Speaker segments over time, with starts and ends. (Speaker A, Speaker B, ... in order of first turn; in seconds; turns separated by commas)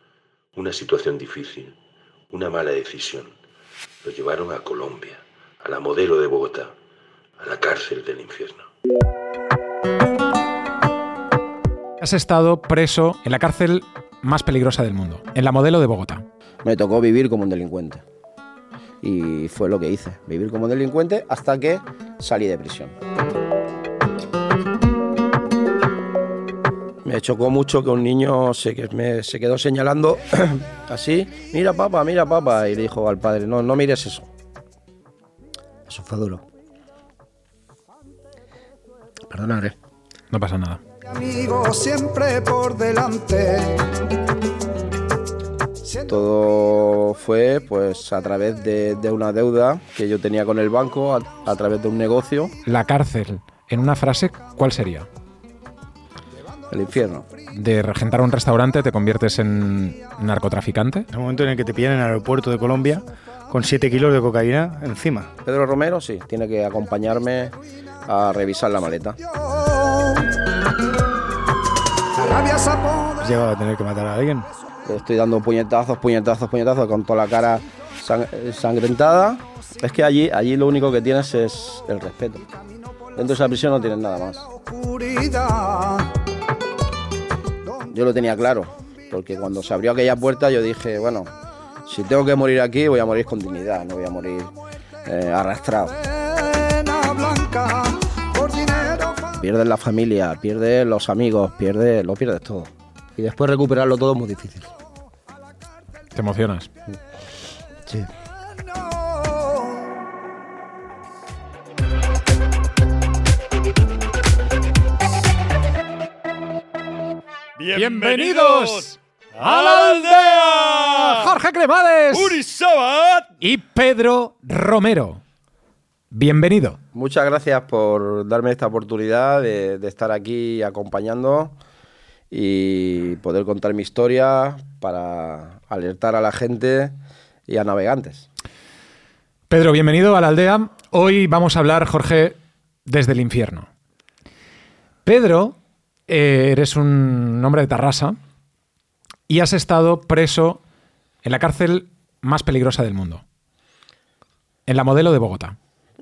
Speaker A: 0.6-1.8, Speaker A: 2.3-3.3, Speaker A: 4.0-6.7, Speaker A: 7.4-8.7, Speaker B: 12.0-16.2, Speaker C: 16.6-18.0, Speaker C: 19.0-22.9, Speaker C: 27.1-34.3, Speaker C: 35.9-36.4, Speaker C: 39.3-39.7, Speaker B: 40.3-40.8, Speaker D: 41.4-43.8, Speaker C: 46.0-52.5, Speaker B: 52.6-55.1, Speaker C: 56.7-57.3, Speaker B: 57.5-61.1, Speaker E: 61.1-65.3, Speaker C: 65.4-69.2, Speaker E: 73.1-74.5, Speaker C: 74.8-82.5, Speaker C: 83.1-84.5, Speaker D: 85.0-86.0, Speaker C: 87.8-91.3, Speaker C: 91.9-94.5, Speaker C: 95.0-96.0, Speaker D: 97.0-98.9, Speaker C: 99.1-104.7, Speaker B: 106.1-106.7, Speaker B: 117.7-122.5, Speaker A: 120.6-120.9, Speaker A: 122.3-123.3, Speaker B: 123.4-125.2, Speaker B: 126.1-126.8, Speaker C: 126.9-131.5, Speaker C: 132.3-136.9, Speaker C: 137.5-138.3, Speaker B: 139.5-143.7, Speaker B: 145.1-145.6, Speaker B: 146.1-148.2, Speaker B: 149.3-150.6, Speaker B: 151.2-153.2, Speaker B: 154.7-155.6